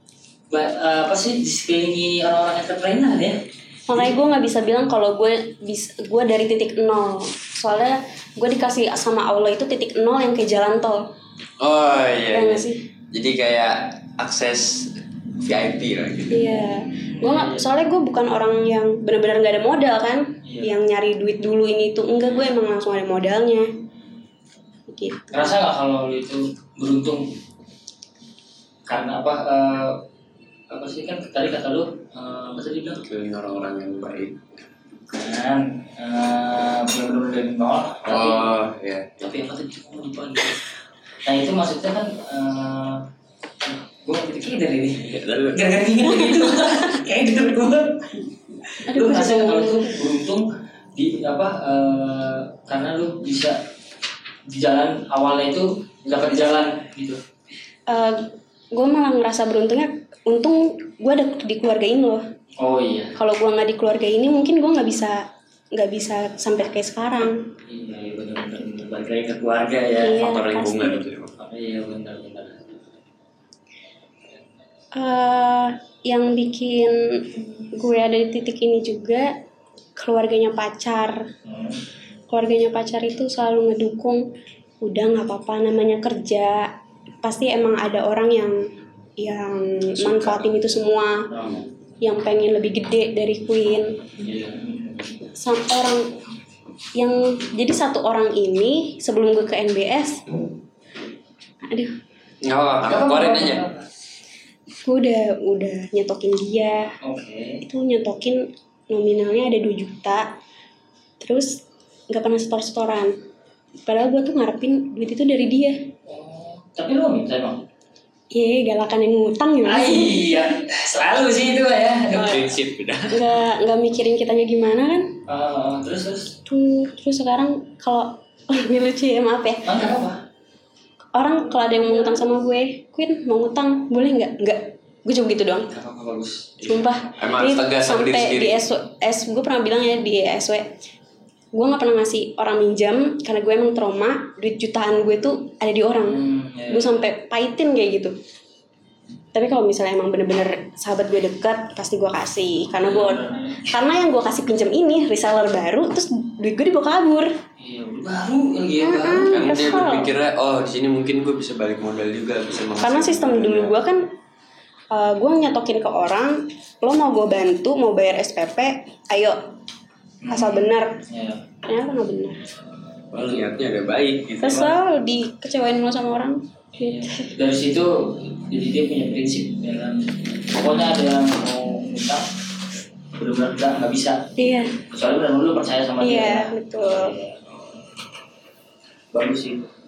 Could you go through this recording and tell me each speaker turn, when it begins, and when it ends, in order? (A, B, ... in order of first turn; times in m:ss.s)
0:00.5-0:03.4 A
0:03.9-0:11.1 B
0:11.6-0:16.6 C
0:12.3-0:12.8 B
0:16.3-0:23.7 B
0:17.1-0:17.6 A
0:20.4-0:20.7 A
0:24.9-0:25.6 B
0:25.3-0:27.3 A
0:28.9-0:30.0 A
0:30.7-0:33.0 A
0:33.0-0:34.4 C
0:35.1-0:38.5 A
0:38.1-0:39.2 C
0:39.2-0:40.6 A
0:41.2-0:43.1 A
0:43.6-0:53.6 A
0:45.0-0:45.9 C
0:48.9-0:50.0 B
0:54.5-0:57.2 A
0:57.9-1:02.3 B
1:02.6-1:03.2 A
1:03.2-1:07.4 B
1:07.7-1:10.3 A
1:10.0-1:11.0 B
1:10.2-1:11.4 C
1:11.4-1:12.6 A
1:14.9-1:19.4 B
1:20.0-1:21.3 B
1:21.4-1:21.8 A
1:22.3-1:24.3 B
1:24.8-1:31.3 B
1:30.1-1:30.4 C
1:31.3-1:31.6 A
1:32.0-1:34.2 B
1:34.2-1:35.2 A
1:35.4-1:36.1 B
1:37.0-1:40.3 B
1:41.6-1:41.9 B
1:42.4-1:43.6 C
1:42.8-1:43.9 A
1:44.8-1:46.9 B
1:47.0-1:47.6 A
1:47.6-1:50.3 B
1:51.2-1:53.2 B
1:53.8-1:55.8 B
1:56.1-1:57.6 A
1:58.3-2:00.4 B
1:59.6-2:02.5 A
2:02.2-2:03.2 C
2:03.1-2:05.2 B
2:05.3-2:06.4 A
2:06.5-2:09.7 B
2:09.6-2:10.2 A
2:11.1-2:15.7 B
2:15.7-2:16.5 A
2:16.6-2:18.6 C
2:16.6-2:20.7 B
2:21.5-2:28.2 B
2:26.0-2:27.1 A
2:29.3-2:37.3 B
2:32.8-2:33.8 A
2:37.6-2:39.4 A
2:38.8-2:40.1 B
2:39.3-2:43.7 C
2:42.8-2:44.1 B
2:44.9-2:49.4 B
2:50.2-2:51.4 A
2:50.3-2:51.0 B
2:51.6-2:52.4 B
2:53.1-2:54.7 C
2:54.4-2:57.3 B
2:54.5-2:54.7 A
2:56.8-3:02.3 A
3:03.2-3:04.3 A
3:04.4-3:04.8 B
3:04.8-3:07.8 A
3:06.0-3:07.1 B
3:09.1-3:09.7 A